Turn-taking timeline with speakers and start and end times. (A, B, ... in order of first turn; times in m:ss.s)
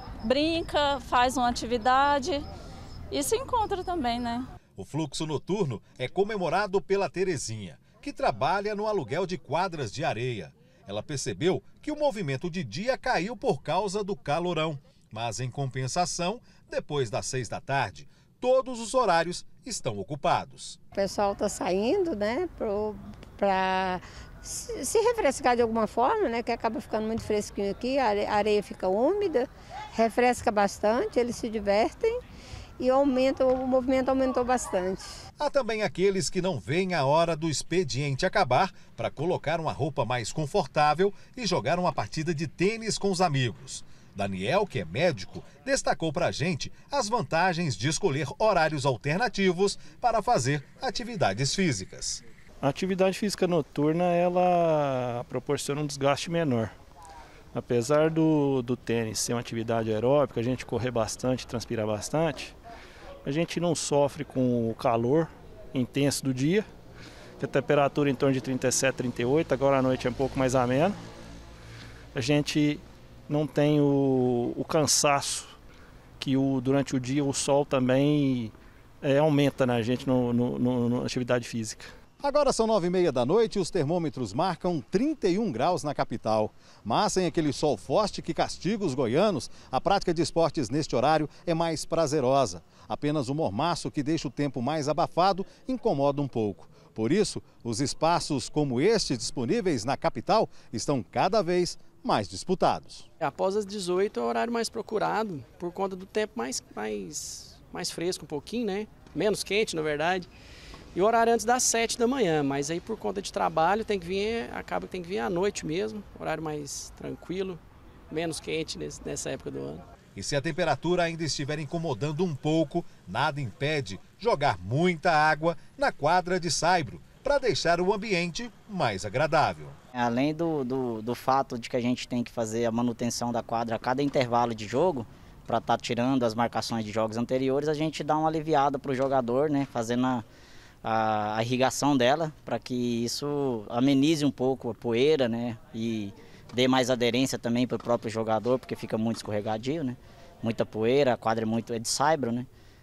0:00.2-0:02.5 A
0:03.1-0:04.5 A
0:04.8-0:20.8 B
0:20.9-0:32.2 C
0:32.8-0:35.2 C
0:35.4-0:52.2 B
0:52.6-0:56.7 D
0:57.5-1:02.6 D
1:03.2-1:06.6 D
1:07.4-1:11.0 D
1:12.1-1:15.6 D
1:16.2-1:21.9 D
1:22.2-1:43.1 B
1:43.2-1:50.3 E
1:50.9-1:59.8 E
2:00.2-2:09.8 B
2:09.9-2:20.2 F
2:20.8-2:32.5 F